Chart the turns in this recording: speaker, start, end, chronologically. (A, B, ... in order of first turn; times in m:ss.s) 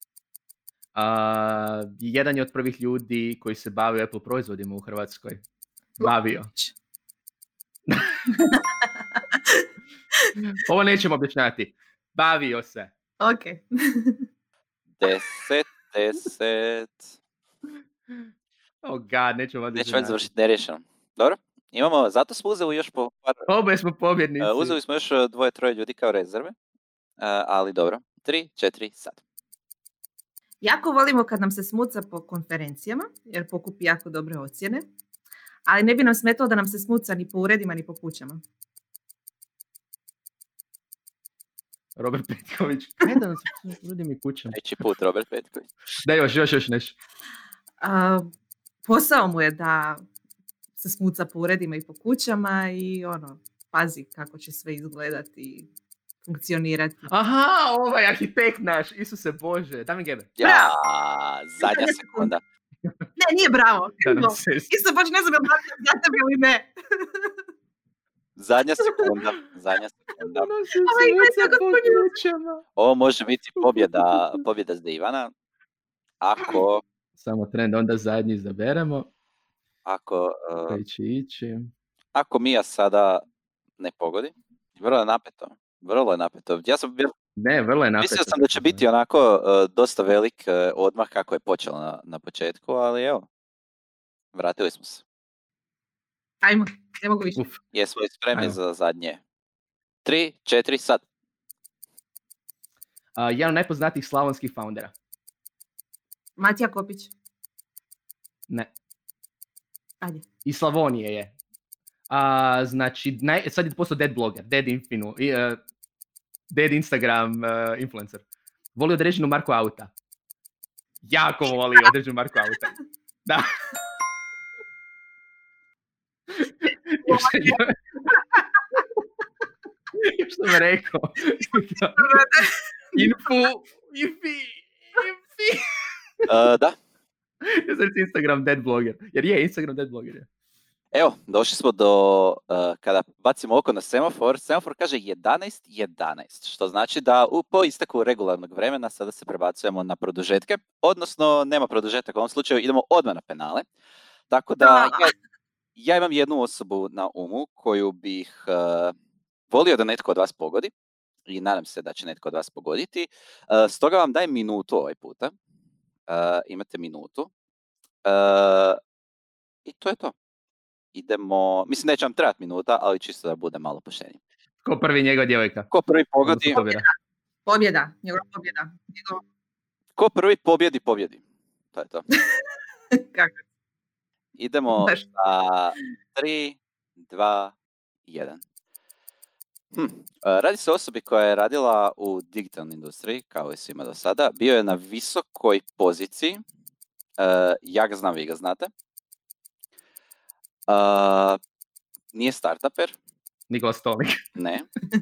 0:00.9-0:05.4 A
0:06.0-0:06.7 B
0:06.0-0:06.5 A
0:08.3-0:09.7 B
0:10.6-0:12.9 A
0:13.2-0:14.2 B
0:15.0-0:17.1 C
0:18.8-0:20.3 A
0:19.7-0:23.4 C
0:23.5-0:24.8 A
0:24.4-0:26.5 C
0:27.2-0:29.2 C
0:30.6-0:34.8 B
0:35.7-0:38.4 B
0:42.0-0:44.6 A
0:44.5-0:45.7 C
0:46.0-0:47.0 A
0:47.8-0:48.3 B
0:48.8-0:50.0 B
0:50.8-0:55.7 B
0:56.2-0:57.1 B
0:57.1-1:00.3 A
1:00.4-1:02.4 C
1:00.4-1:00.8 B
1:01.6-1:02.3 B
1:03.2-1:07.3 B
1:04.0-1:04.7 A
1:08.4-1:10.5 C
1:08.8-1:09.1 B
1:10.2-1:12.6 A
1:10.8-1:12.2 B
1:12.8-1:15.3 C
1:13.6-1:14.4 A
1:16.2-1:16.8 C
1:17.2-1:19.1 A
1:19.8-1:20.8 C
1:20.7-1:21.7 A
1:22.1-1:23.2 C
1:23.8-1:27.1 C
1:27.4-1:28.8 A
1:28.0-1:33.3 C
1:34.3-1:35.0 C
1:36.4-1:37.5 B
1:37.7-1:39.2 C
1:40.0-1:41.0 C
1:43.2-1:44.9 A
1:46.4-1:47.1 B
1:50.4-1:51.3 A
1:52.1-1:55.6 A
1:56.5-1:58.2 A
1:58.7-1:59.9 A
2:01.0-2:02.7 A
2:03.2-2:03.5 A
2:06.4-2:08.1 A
2:07.0-2:07.6 B
2:09.9-2:12.2 A
2:11.9-2:13.0 B
2:12.9-2:15.6 A
2:16.2-2:16.7 C
2:17.4-2:20.3 A
2:20.9-2:33.6 C
2:34.3-2:35.1 C
2:34.6-2:35.1 B
2:35.8-2:38.9 C
2:39.5-2:40.7 C
2:41.3-2:45.3 C
2:46.1-2:47.3 C
2:48.0-2:48.8 C
2:49.6-2:50.1 C
2:50.9-2:54.2 C
2:54.6-2:55.7 A
2:55.7-2:56.6 C
2:56.2-2:56.8 A
2:56.5-2:56.9 B
2:57.4-2:59.2 B
3:00.0-3:01.2 C
3:01.7-3:02.1 C
3:02.9-3:03.4 B
3:04.4-3:07.5 C
3:04.7-3:05.0 B
3:08.1-3:08.4 C
3:09.7-3:16.4 C
3:17.2-3:18.7 C
3:20.7-3:21.4 C
3:22.1-3:22.9 C
3:23.5-3:24.2 A
3:24.4-3:24.7 C